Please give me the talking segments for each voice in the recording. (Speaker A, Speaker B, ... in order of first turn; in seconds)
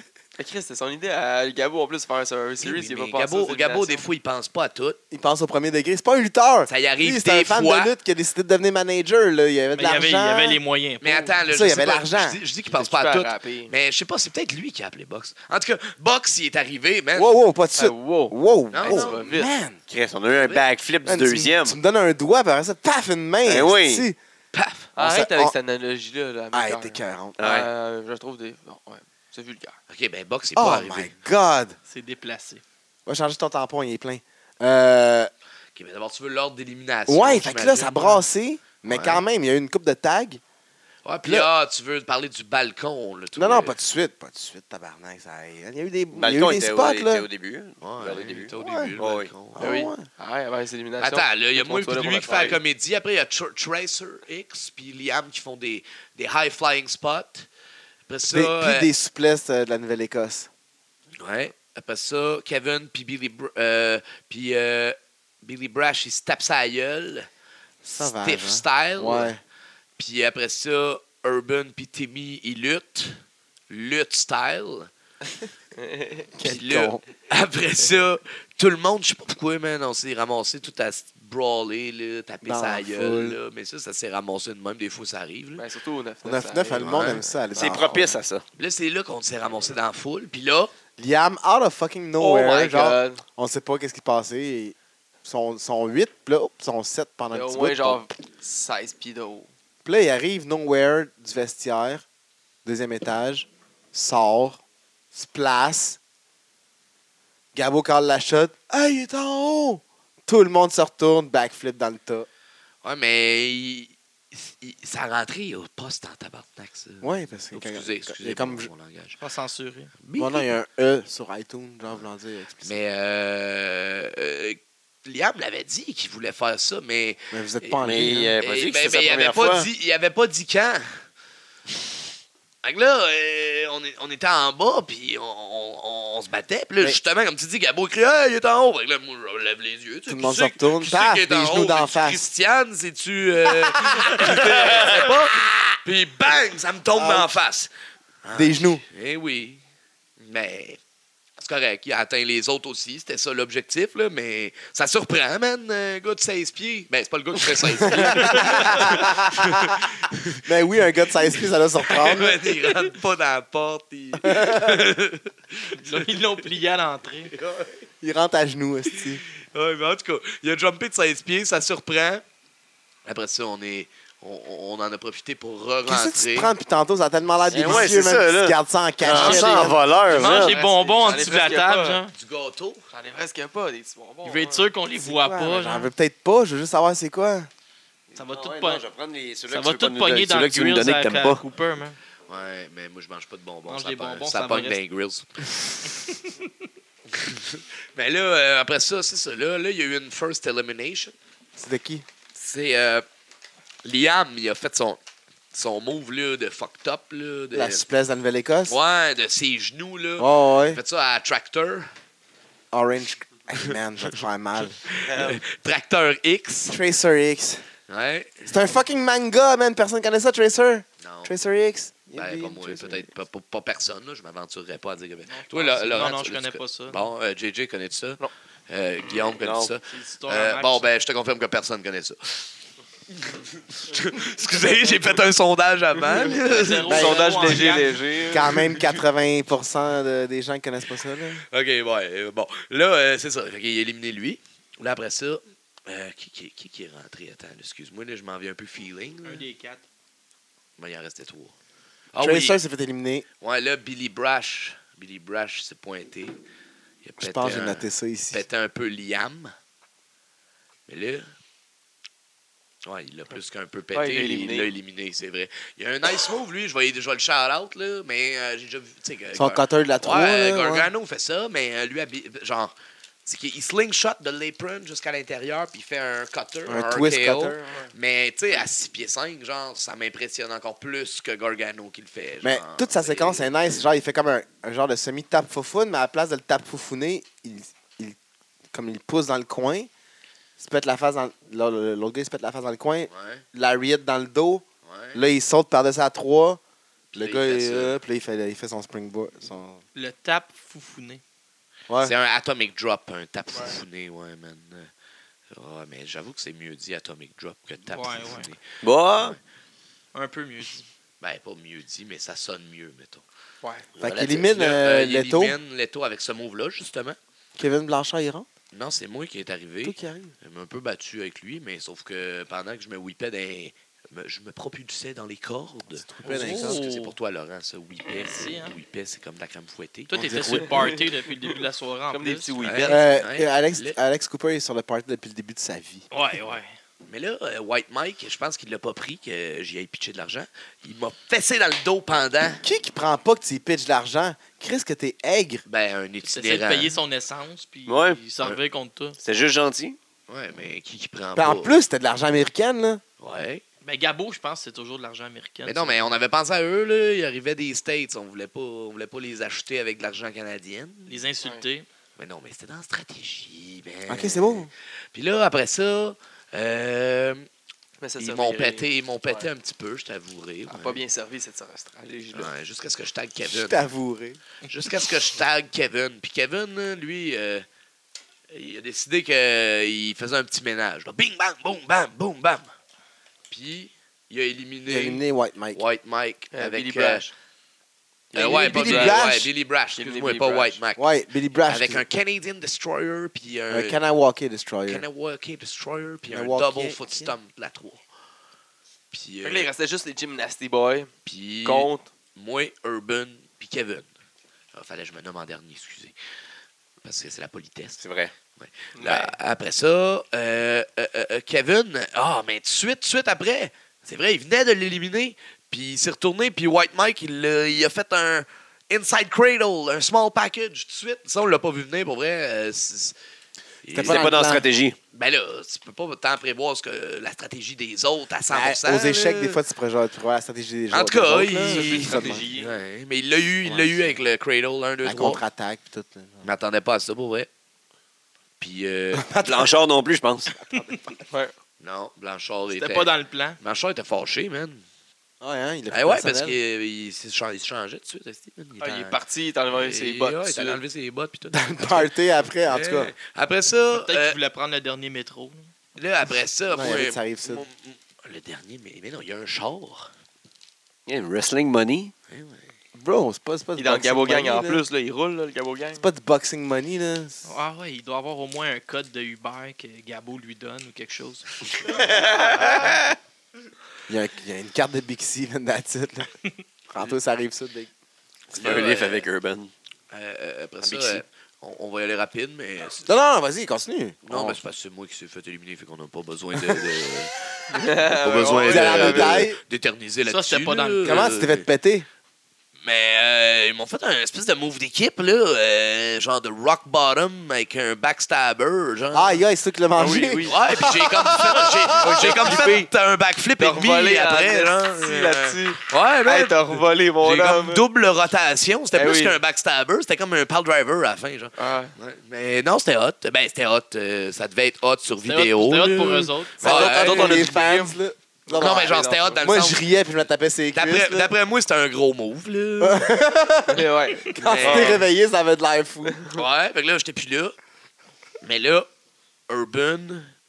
Speaker A: 0.4-4.0, 12.7-13.7, 17.8-19.5, 24.9-29.8, 49.6-52.5, 75.8-76.3, 85.6-87.8, 92.2-93.2, 97.3-99.5, 180.1-182.0, 182.9-184.7, 236.8-238.6, 263.9-264.7, 330.6-331.0, 332.1-333.1, 368.0-369.5, 370.7-372.5, 386.5-387.3, 388.3-389.2, 389.9-390.8, 399.4-401.1, 401.6-402.1, 408.9-409.3, 431.6-432.7, 448.8-450.8, 463.8-466.0, 472.5-473.0, 487.7-489.5, 499.9-500.6, 501.9-502.9, 503.6-507.8, 508.9-509.4, 511.6-511.9, 517.0-517.6, 518.9-519.4, 523.7-525.0
Speaker B: 2.6-5.0, 6.7-7.9, 11.0-17.3, 18.7-19.2, 24.5-24.9, 29.9-31.1, 35.7-38.2, 38.8-39.2, 41.0-43.8, 47.8-49.8, 51.0-57.5, 58.1-58.9, 61.2-67.3, 68.0-69.3, 70.0-74.9, 76.4-85.6, 86.8-87.2, 88.6-90.7, 112.8-119.2, 120.0-120.5, 122.6-131.0, 132.6-147.7, 148.2-149.6, 150.2-150.8, 151.4-160.4, 161.2-166.2, 167.3-167.8, 168.9-172.2, 173.1-176.5, 182.1-182.8, 192.3-195.8, 197.1-201.1, 202.3-203.1, 203.8-205.0, 205.5-207.8, 208.7-211.9, 214.8-216.8, 217.9-218.6, 221.0-221.3, 222.1-232.5, 233.1-237.0, 241.5-249.4, 250.8-251.5, 252.1-252.6, 253.4-256.4, 257.0-259.5, 260.9-261.3, 262.8-272.7, 273.2-283.5, 293.1-293.4, 294.9-295.2, 297.1-297.9, 302.0-304.9, 305.5-308.6, 311.2-313.2, 314.0-317.2, 318.7-330.4, 332.6-334.0, 337.1-342.6, 345.7-346.9, 350.3-351.8, 353.2-353.6, 355.6-361.2, 362.2-367.4, 368.2-371.0, 372.3-373.8, 374.7-377.6, 378.5-382.7, 383.5-385.2, 385.7-387.3, 388.3-391.0, 391.6-394.0, 394.9-398.0, 399.1-399.7, 401.2-404.1, 404.7-406.1, 407.0-408.0, 408.6-423.1, 423.8-424.3, 425.1-429.6, 430.9-435.4, 436.4-437.5, 438.6-439.3, 441.8-444.8, 445.9-449.2, 449.7-452.1, 452.7-454.4, 455.9-460.1, 462.3-462.7, 478.5-479.3, 480.1-483.1, 484.2-491.6, 492.8-499.4, 500.4-517.9, 518.5-519.8, 520.7-523.1, 524.4-525.0, 526.3-527.5, 528.4-528.9, 529.5-530.3
Speaker C: 5.1-10.6, 11.5-12.4, 17.1-19.8, 21.1-24.2, 25.0-25.6, 26.5-27.4, 30.6-31.8, 33.0-35.3, 37.1-40.4, 41.2-41.5, 43.3-47.3, 48.5-48.9, 49.5-50.1, 58.3-60.5, 67.8-69.4, 76.4-77.0, 82.4-83.4, 86.2-88.2, 91.0-98.0, 99.8-102.0, 102.6-104.6, 105.1-106.0, 107.5-112.3, 117.0-118.7, 120.2-122.8, 127.3-128.3, 140.1-142.2, 143.7-145.1, 146.9-147.3, 148.3-148.8, 157.8-159.8, 160.4-162.4, 164.2-164.9, 168.0-169.2, 175.9-179.8, 185.0-187.5, 201.6-202.1, 207.5-208.8, 210.2-210.8, 212.7-214.9, 216.7-217.7, 218.5-223.1, 236.9-237.3, 238.3-241.4, 252.2-253.2, 257.2-258.4, 269.3-270.9, 276.6-277.8, 282.4-288.2, 288.7-289.9, 290.6-296.6, 297.1-299.8, 314.0-315.6, 317.6-318.5, 319.8-320.3, 326.0-326.8, 330.1-330.7, 332.9-336.1, 342.6-345.6, 351.4-353.0, 364.1-364.7, 373.5-374.4, 384.9-385.8, 388.3-389.5, 391.0-392.1, 393.7-395.0, 396.3-397.3, 423.9-424.6, 428.5-432.4, 433.6-434.1, 435.0-436.4, 439.1-439.7, 440.7-441.1, 445.4-446.6, 451.5-453.1, 456.7-457.6, 462.9-464.8, 466.0-467.4, 474.1-476.3, 476.9-477.9, 483.1-484.6, 488.7-489.6, 491.1-492.1, 499.1-502.7, 516.6-521.3, 522.8-526.2
Speaker D: 9.7-11.4, 31.9-32.6, 119.2-119.9, 165.7-167.3, 179.2-182.1, 184.2-185.9, 188.1-188.8, 189.5-192.0, 193.7-194.8, 196.1-196.4, 225.3-227.0, 229.8-230.9, 236.4-238.0, 249.2-249.8, 299.9-301.2, 307.9-308.5, 310.1-310.8, 326.2-327.1, 328.2-328.8, 330.1-332.6, 336.1-336.7, 346.2-349.2, 353.8-356.1, 361.1-361.9, 442.7-443.6, 453.9-455.7, 467.4-471.4, 490.2-491.3, 515.2-516.6
Speaker E: 19.9-21.8, 23.4-24.1, 27.4-27.7, 46.1-49.3, 52.2-52.5, 87.5-88.4, 127.8-129.7, 177.5-180.6, 188.3-191.4, 229.4-229.7, 308.8-309.4, 347.9-348.2, 349.2-350.0, 408.0-408.3, 424.0-425.0, 439.4-440.5, 461.1-462.1, 478.5-479.7, 480.8-481.2, 516.7-517.6